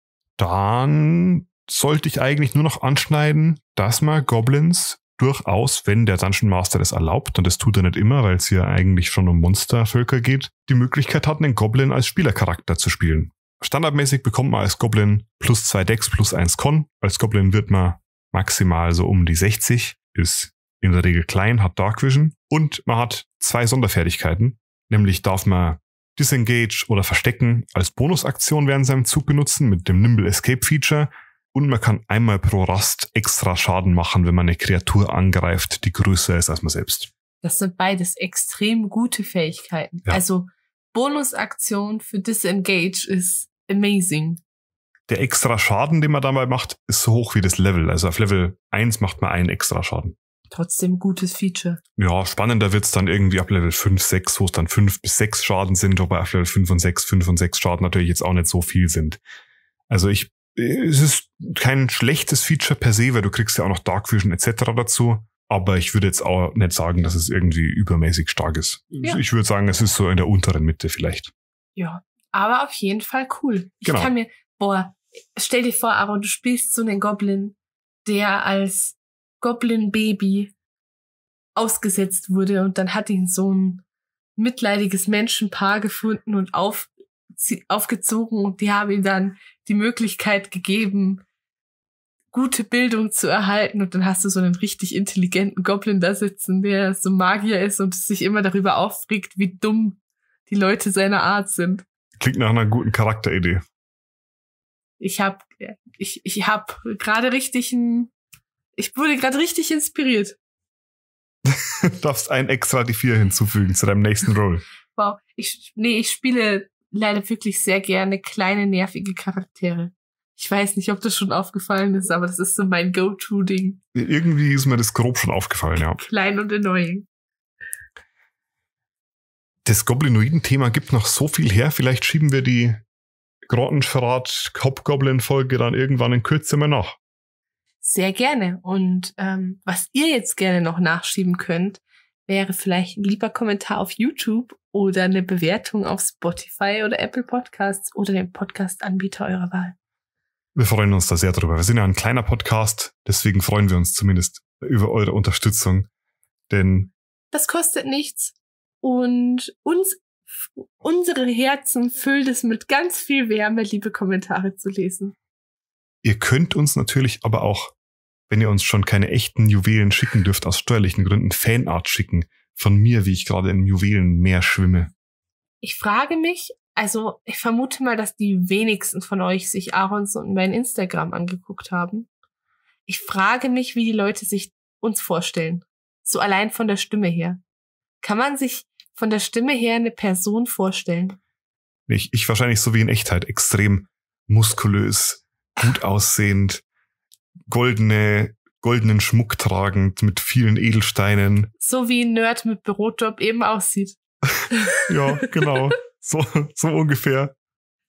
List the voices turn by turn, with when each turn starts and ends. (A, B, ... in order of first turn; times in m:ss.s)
0:00.4-0:37.1 A
0:37.4-0:44.4 B
0:45.1-0:50.2 A
0:50.5-0:51.8 B
0:52.0-0:59.2 A
0:59.9-1:11.3 A
1:11.8-1:20.5 B
1:13.8-1:14.1 A
1:21.6-1:23.8 B
1:24.4-1:31.2 B
1:32.3-1:41.8 B
1:42.2-1:43.6 A
1:45.0-1:48.1 B
1:48.8-1:50.4 B
1:51.4-1:54.6 A
1:55.0-2:03.8 B
2:04.0-2:06.0 A
2:05.9-2:07.1 B
2:09.6-2:12.8 A
2:13.5-2:17.0 A
2:17.8-2:29.8 B
2:30.6-2:35.9 A
2:36.5-2:36.9 A
2:37.3-2:40.0 B
2:40.6-2:45.2 B
2:46.0-2:47.7 A
2:48.3-2:54.9 A
2:55.6-3:02.1 B
3:02.9-3:07.4 B
3:08.0-3:11.2 B
3:11.9-3:16.6 A
3:17.5-3:21.5 A
3:21.6-3:24.0 B
3:24.4-3:27.3 A
3:24.5-3:25.5 B